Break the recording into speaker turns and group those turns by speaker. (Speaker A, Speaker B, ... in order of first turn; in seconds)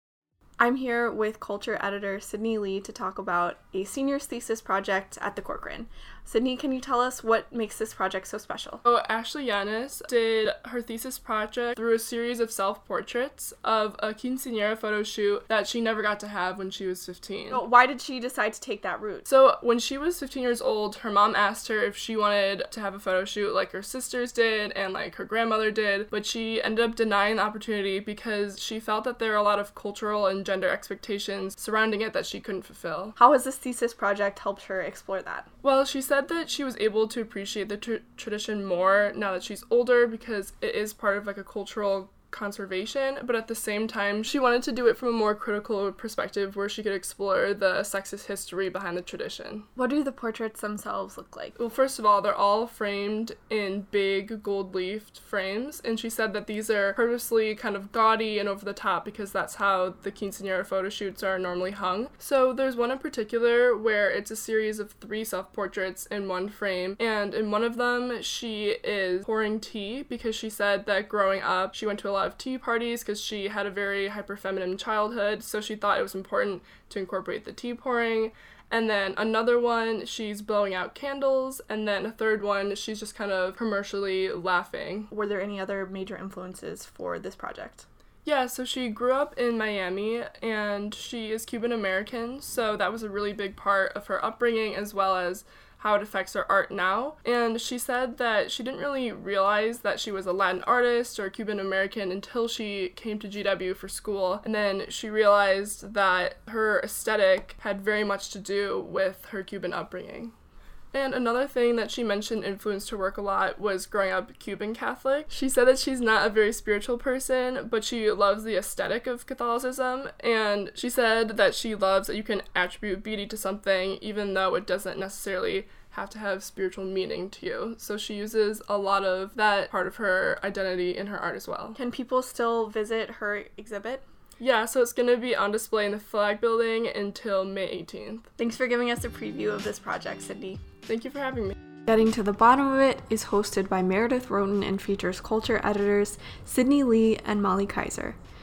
Speaker A: 0.6-8.8, 17.5-19.3, 33.2-35.5, 49.8-51.6, 85.1-87.9, 131.8-134.0, 138.4-140.6, 141.9-148.2
Speaker B: 8.8-17.6, 19.3-33.1, 35.6-49.7, 51.6-85.1, 88.2-110.3, 110.9-131.8, 134.4-138.3, 140.9-141.5